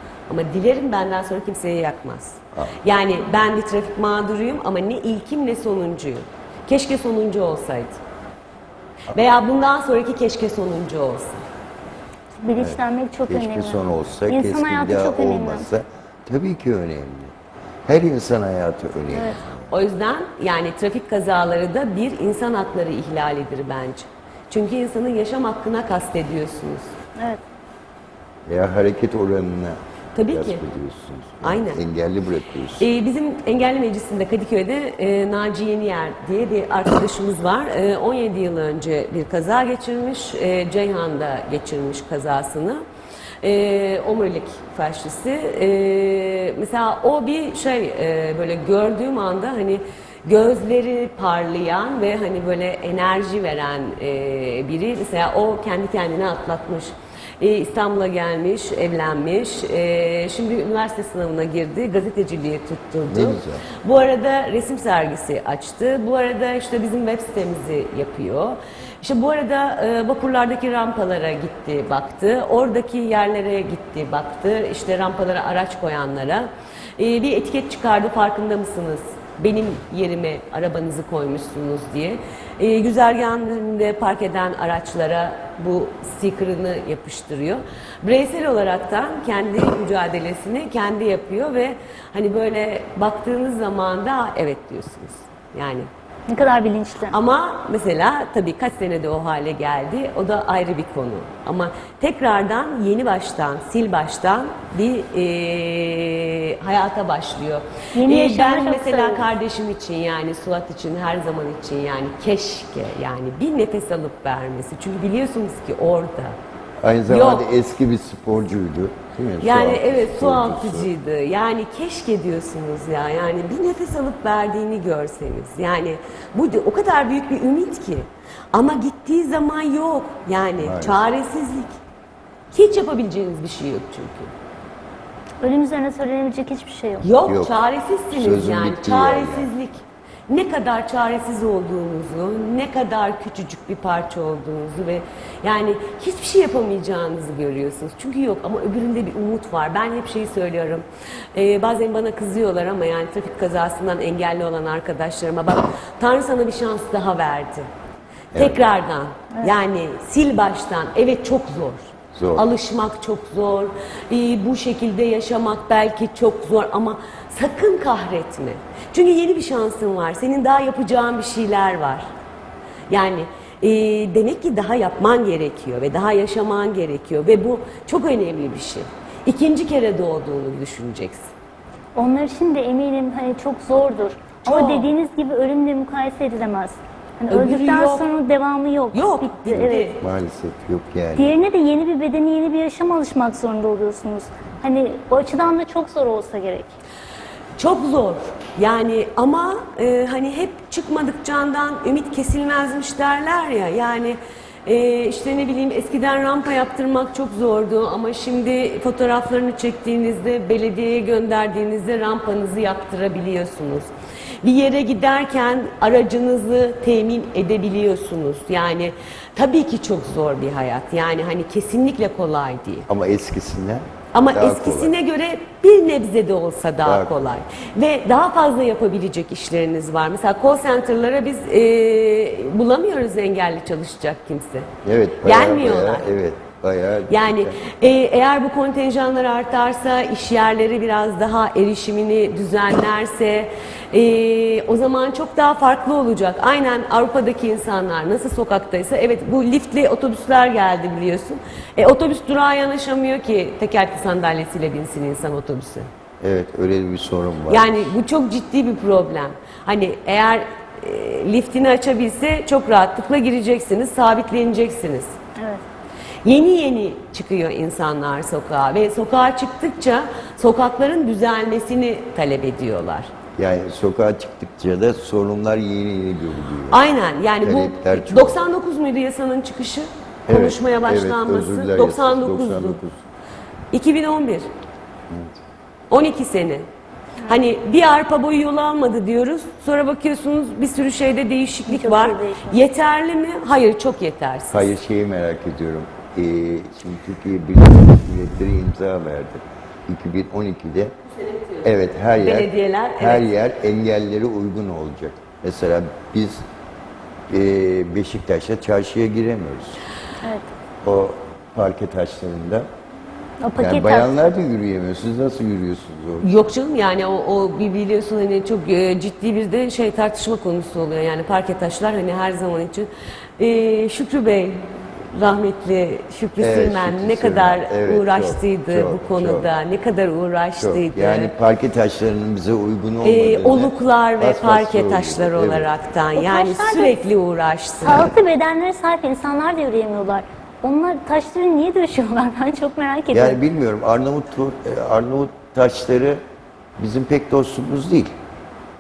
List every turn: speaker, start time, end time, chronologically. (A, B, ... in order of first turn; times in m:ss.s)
0:00.3-0:08.0 A
0:02.5-0:02.8 B
0:09.1-0:11.4 A
0:12.4-0:15.7 C
0:12.6-0:17.3 B
0:17.8-0:19.7 B
0:19.1-0:19.4 C
0:19.7-0:26.9 A
0:28.5-0:32.9 B
0:30.1-0:30.6 A
0:31.4-0:31.8 A
0:32.8-0:42.8 A
0:43.4-1:35.9 A
1:03.1-1:03.6 B
1:36.3-1:37.2 C
1:37.1-1:56.4 A
1:47.9-1:49.2 C
1:56.8-2:00.9 B
1:57.1-1:57.5 A
1:59.4-2:11.8 A
2:10.6-2:11.0 B
2:12.5-2:14.3 A
2:15.4-2:17.0 C
2:17.0-2:37.7 A
2:17.2-2:17.6 B
2:18.1-2:19.5 B
2:38.3-2:38.6 B
2:38.3-2:52.1 A
2:42.1-2:42.5 B
2:52.9-3:01.3 A
3:02.0-3:10.0 C
3:04.4-3:04.9 A
3:07.3-3:08.1 A
3:08.9-3:10.0 A
3:09.5-3:11.3 B
3:11.1-3:16.7 C
3:17.6-3:33.9 A
3:34.4-3:42.9 A
3:42.9-3:44.9 B
3:44.1-3:54.7 A
3:46.8-3:47.2 B
3:54.8-3:57.6 B
3:55.2-3:56.1 A
3:57.1-4:15.9 A
4:16.2-4:17.9 B
4:17.5-4:25.2 A
4:25.4-4:25.6 C
4:26.2-4:33.1 A
4:33.4-4:36.8 B
4:36.7-4:42.8 A
4:37.4-4:38.4 B
4:40.3-4:43.0 B
4:43.7-4:44.5 A
4:45.9-4:46.6 A
4:47.2-4:54.7 A
4:51.7-4:52.6 C
4:54.5-5:00.9 B
5:01.6-5:06.4 B
5:02.2-5:03.2 A
5:07.3-5:09.8 B
5:10.2-5:10.5 C
5:10.8-5:12.7 B
5:13.4-5:14.1 C
5:13.6-5:16.3 B
5:16.2-5:31.3 A
5:26.4-5:29.5 B
5:30.6-5:35.7 B
5:33.0-5:38.1 A
5:36.2-5:36.9 C
5:37.8-5:43.4 C
5:43.1-5:46.2 B
5:46.8-5:48.1 B